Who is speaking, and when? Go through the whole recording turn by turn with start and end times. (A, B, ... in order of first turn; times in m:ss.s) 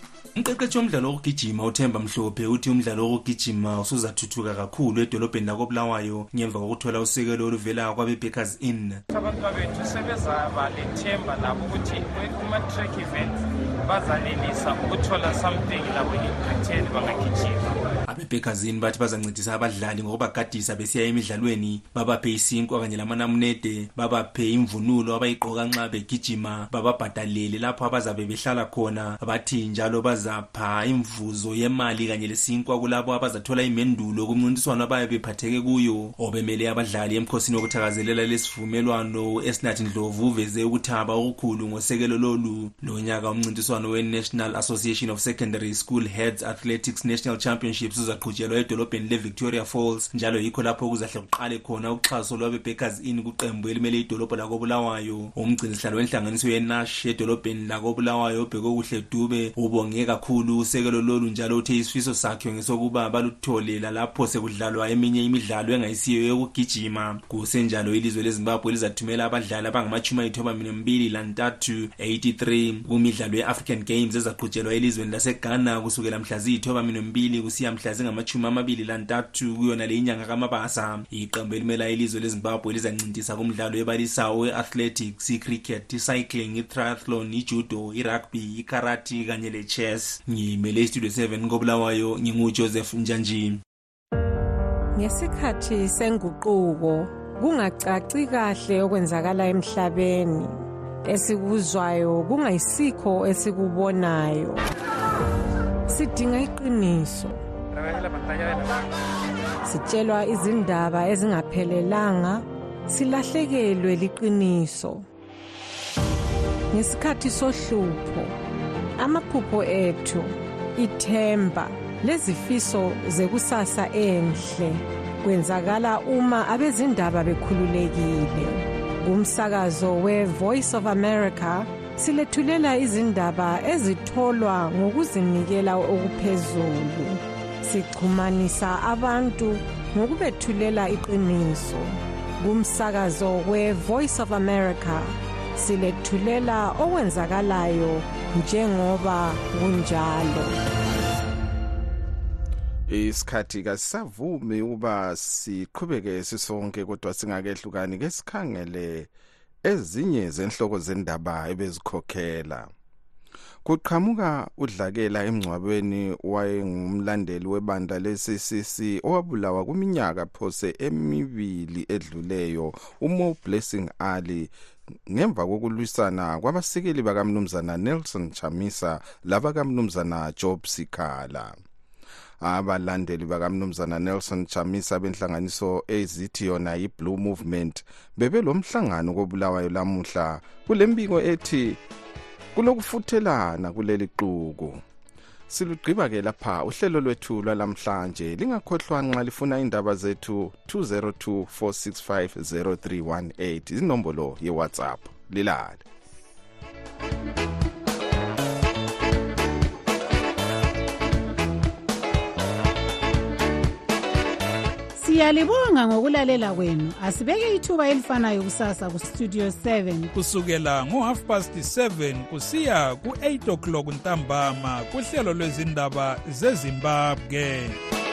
0:00.4-0:09.0 A
0:09.1-0:17.8 B
0:18.1-1:33.6 A
1:35.0-1:44.6 C
1:45.9-1:47.4 C
1:47.7-1:48.8 B
1:49.7-1:55.0 C
1:56.7-1:58.3 C
1:59.0-2:30.6 C
2:32.9-2:39.1 D
2:39.6-2:42.7 D
2:43.6-2:54.5 D
2:55.1-3:01.6 D
3:02.4-3:11.8 D
3:12.6-3:14.8 D
3:15.5-3:25.8 D
3:35.0-3:40.1 E
3:40.1-3:47.8 F